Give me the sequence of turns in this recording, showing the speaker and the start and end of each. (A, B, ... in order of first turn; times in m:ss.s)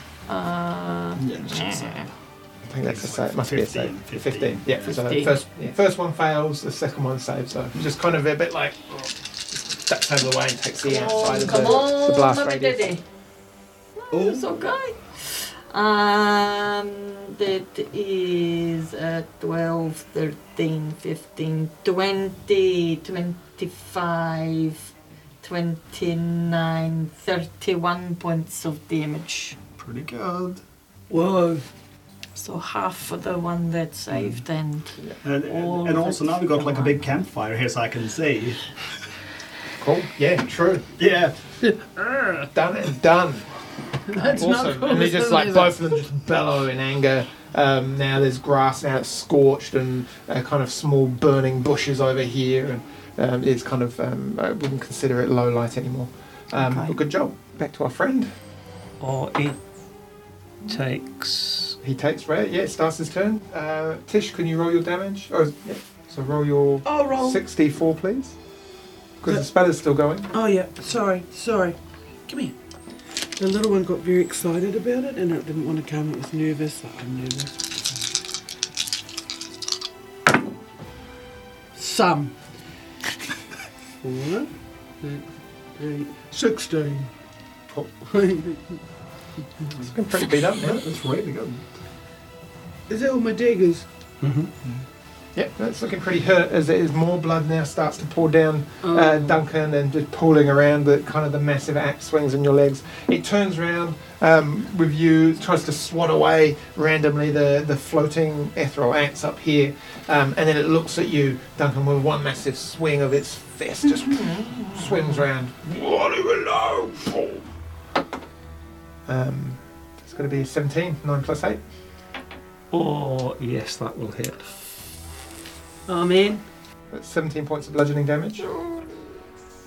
0:00.3-0:02.1 A
0:01.2-0:02.1 B
0:02.7-0:09.0 C
0:02.8-0:04.8 B
0:04.9-0:05.3 A
0:09.7-0:12.9 C
0:10.8-0:13.0 A
0:14.0-0:29.6 A
0:14.1-0:14.7 B
0:29.8-0:30.6 B
0:31.1-0:31.6 D
0:32.4-0:36.9 A
0:35.2-0:38.6 B
0:39.8-0:40.9 C
0:41.0-0:41.4 B
0:41.7-0:42.5 D
0:42.5-0:43.5 C
0:44.1-0:45.8 D
0:44.1-0:58.3 C
0:59.0-0:59.6 E
1:00.6-1:01.8 E
1:01.8-1:08.4 C
1:06.8-1:07.4 D
1:09.2-1:10.3 C
1:10.3-1:12.5 D
1:13.4-1:17.6 D
1:21.8-1:22.3 D
1:24.0-1:24.5 D
1:25.0-1:27.1 D
1:28.0-1:28.8 D
1:29.8-1:30.8 C
1:30.6-1:31.6 B
1:32.9-1:34.5 D
1:34.4-1:34.8 B
1:35.4-1:57.5 C
1:38.8-1:39.4 D
1:54.2-1:54.8 A
1:59.1-2:01.6 C
2:02.7-2:04.4 E
2:05.9-2:06.4 D
2:06.9-2:08.5 C